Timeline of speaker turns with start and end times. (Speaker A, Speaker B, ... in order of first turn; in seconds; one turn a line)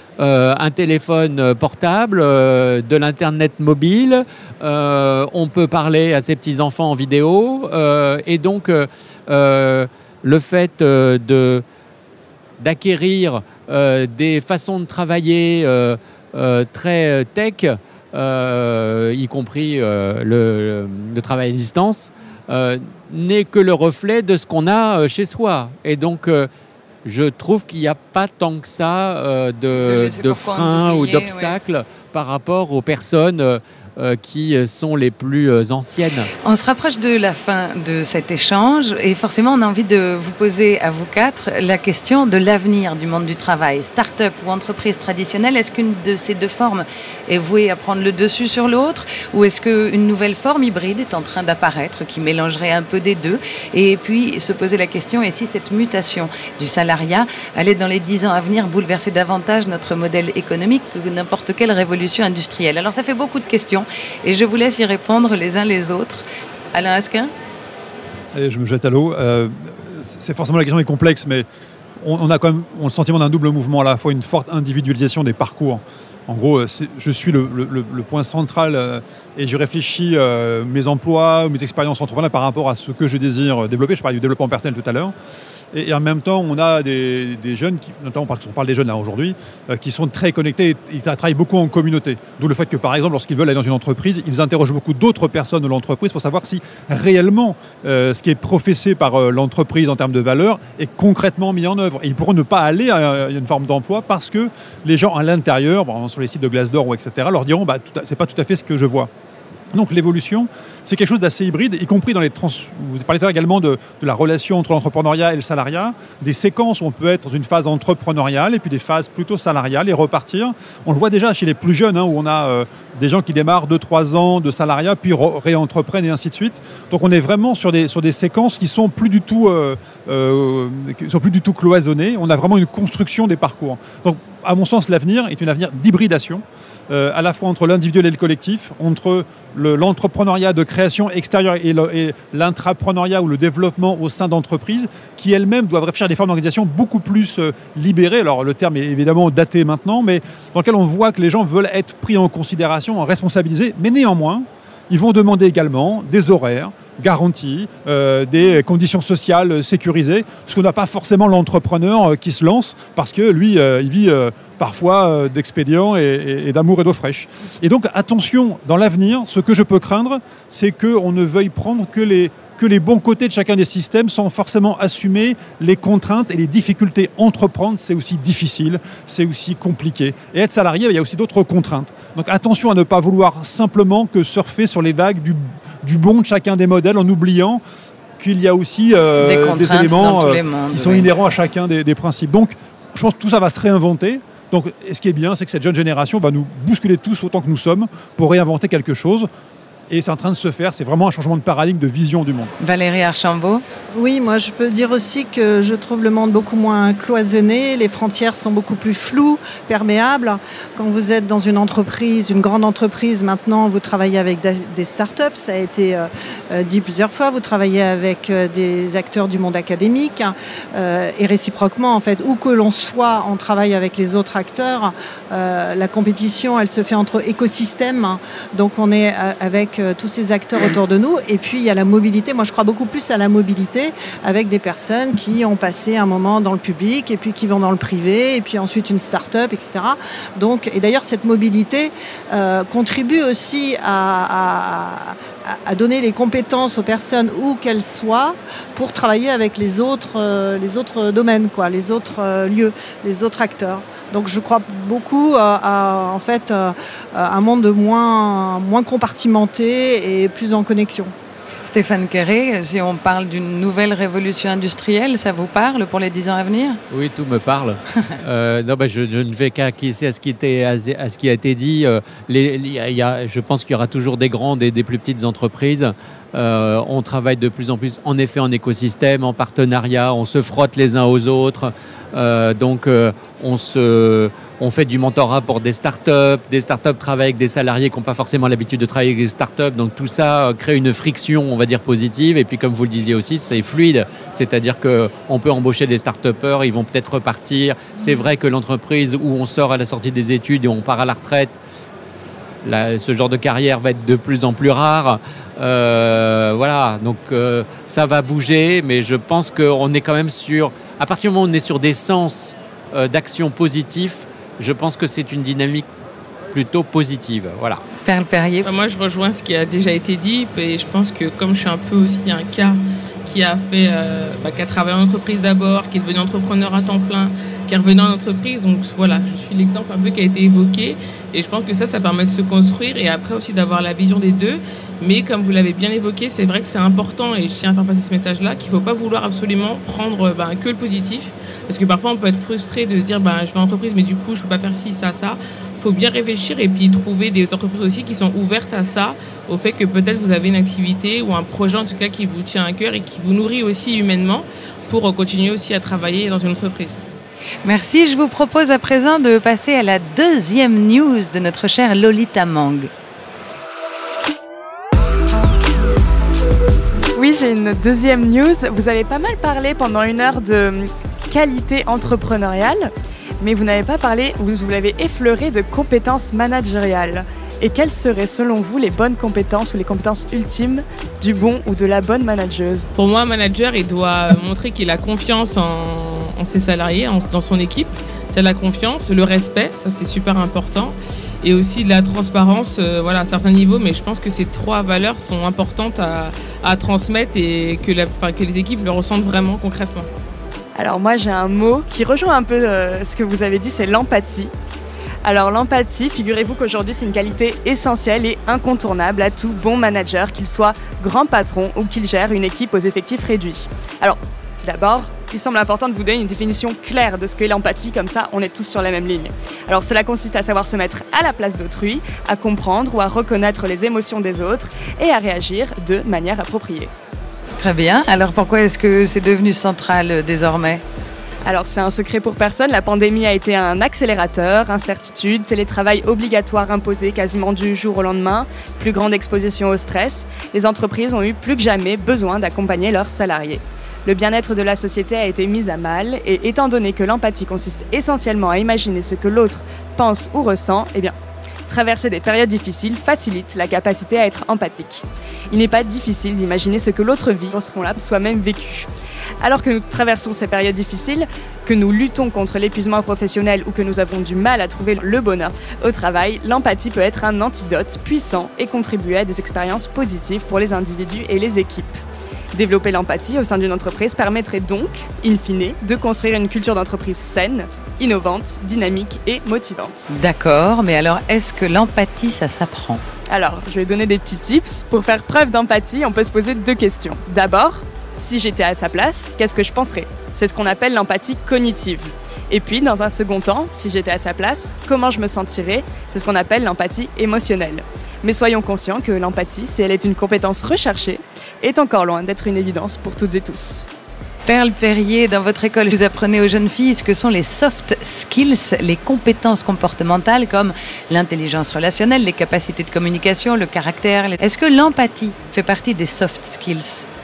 Speaker A: 0.2-11.6
Speaker A: 12.6-26.5
Speaker A: 27.1-36.3
Speaker B: 29.8-31.6
Speaker B: 36.4-67.3
Speaker C: 68.3-71.5
Speaker C: 72.0-85.1
Speaker C: 85.7-109.1
Speaker C: 109.7-187.6
Speaker C: 188.2-199.3
Speaker B: 189.2-191.1
Speaker C: 199.9-202.5
Speaker B: 202.6-203.6
Speaker D: 203.9-261.1
Speaker B: 261.7-266.8
Speaker A: 266.9-301.6
Speaker A: 302.6-315.9
Speaker A: 316.5-317.8
Speaker B: 318.1-318.7
Speaker E: 318.6-357.0
Speaker B: 357.6-362.9
Speaker F: 367.1-382.9
Speaker E: 382.9-400.1
Speaker F: 400.8-404.5
Speaker F: 405.2-426.9
Speaker B: 427.6-430.8
Speaker F: 431.5-451.1
Speaker F: 451.7-458.9
Speaker F: 459.4-472.0
Speaker F: 472.5-480.1
Speaker B: 480.1-483.0
Speaker F: 483.3-503.9
Speaker B: 504.5-517.1